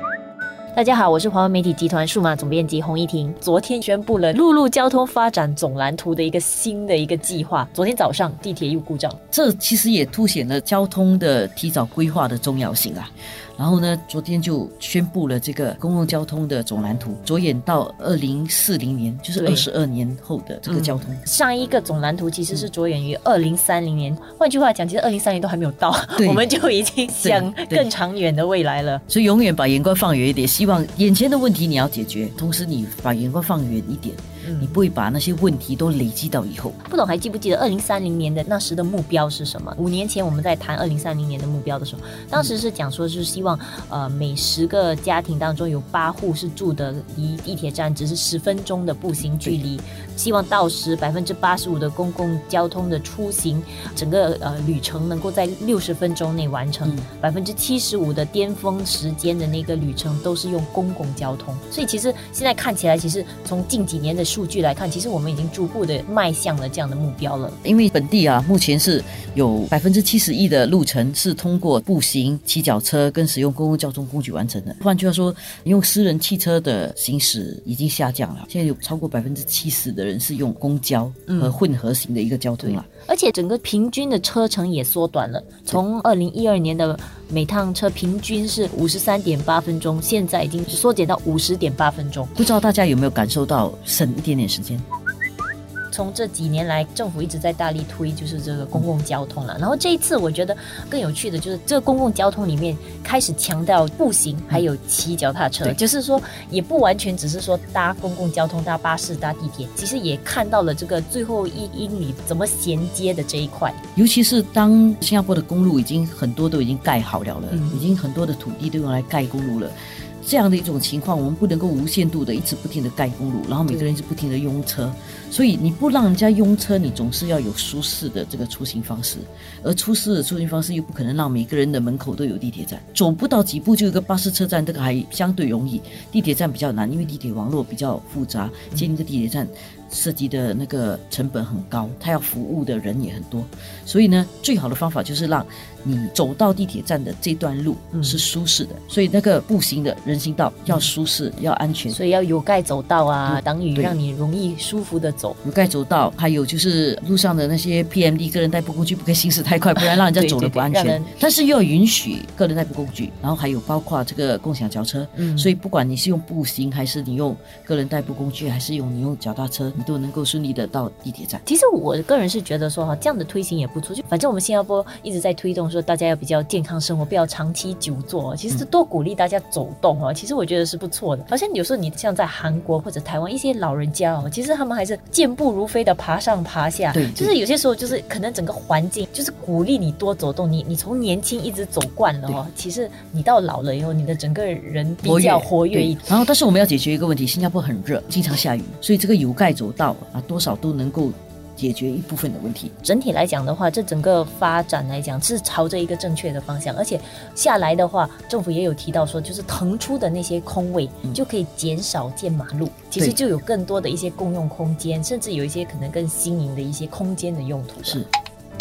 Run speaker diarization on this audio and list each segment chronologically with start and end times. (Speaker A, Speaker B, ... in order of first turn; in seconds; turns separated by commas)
Speaker A: 0.7-9.2, Speaker B: 9.3-21.2, Speaker A: 19.4-19.7, Speaker A: 20.6-29.0, Speaker B: 26.2-26.5, Speaker B: 27.2-27.9, Speaker B: 29.1-36.8, Speaker A: 34.4-34.8, Speaker A: 36.8-67.6, Speaker B: 67.6-82.9, Speaker A: 81.3-81.6, Speaker A: 82.6-92.3, Speaker B: 92.4-94.8, Speaker A: 95.9-113.8, Speaker B: 114.0-152.0, Speaker A: 117.5-117.8, Speaker A: 151.9-155.4, Speaker B: 153.3-154.0, Speaker B: 155.4-171.4, Speaker A: 159.8-161.1, Speaker A: 165.2-165.5, Speaker A: 171.5-196.1, Speaker B: 186.9-187.4, Speaker B: 195.0-202.7, Speaker A: 202.8-218.0